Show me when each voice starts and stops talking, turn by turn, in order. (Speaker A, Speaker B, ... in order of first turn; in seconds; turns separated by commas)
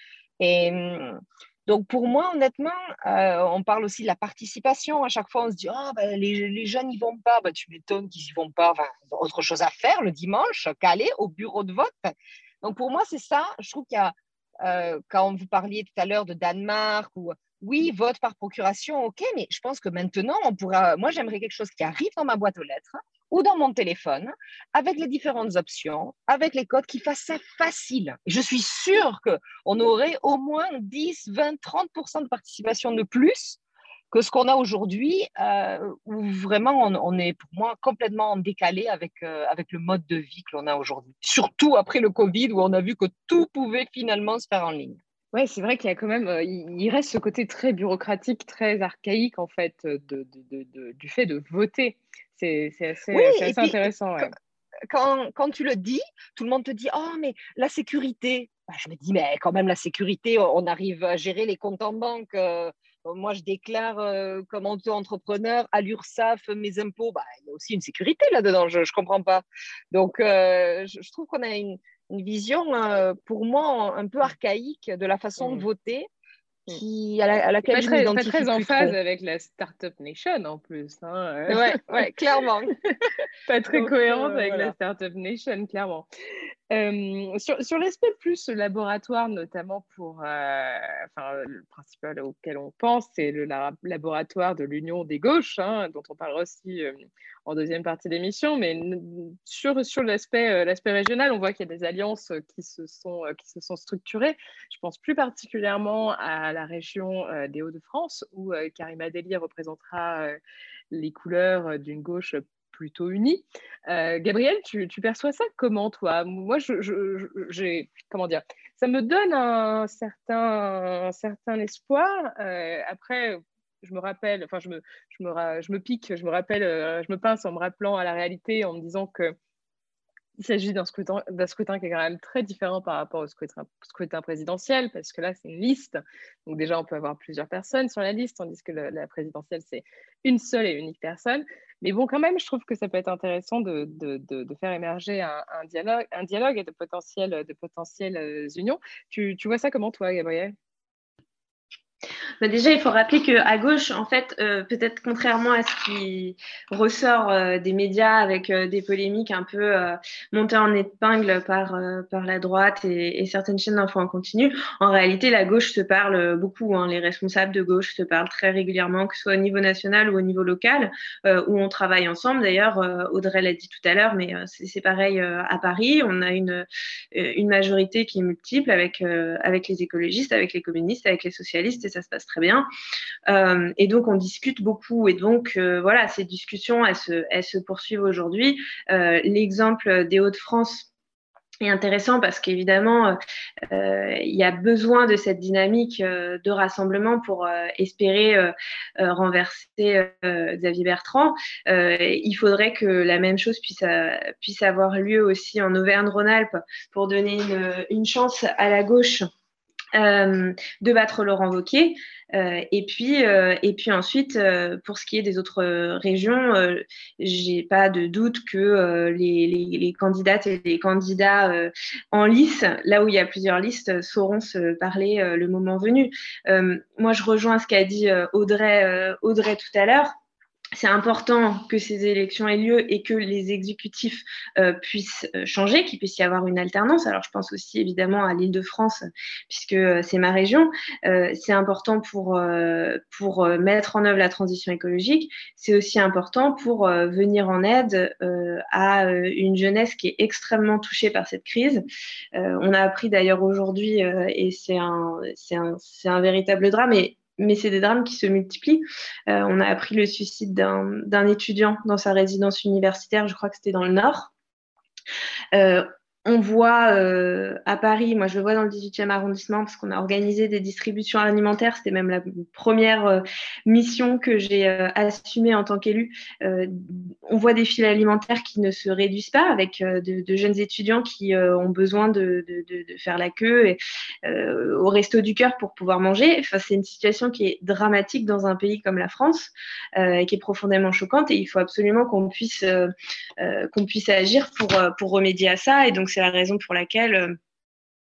Speaker A: 0.4-33.6, Speaker A: 34.1-45.0, Speaker B: 45.3-54.3, Speaker A: 53.1-54.3, Speaker A: 54.9-76.1, Speaker B: 75.4-75.7, Speaker A: 76.7-79.0, Speaker B: 77.7-82.1, Speaker A: 81.5-82.8, Speaker B: 83.5-86.1, Speaker A: 83.7-84.8, Speaker B: 86.7-96.9, Speaker B: 97.5-110.4, Speaker B: 110.9-129.3, Speaker B: 130.4-150.6, Speaker C: 152.4-182.7, Speaker C: 183.3-190.9, Speaker C: 191.6-193.2, Speaker C: 193.7-209.3, Speaker C: 209.9-230.1, Speaker C: 230.8-251.8, Speaker C: 252.3-264.3, Speaker C: 265.5-297.4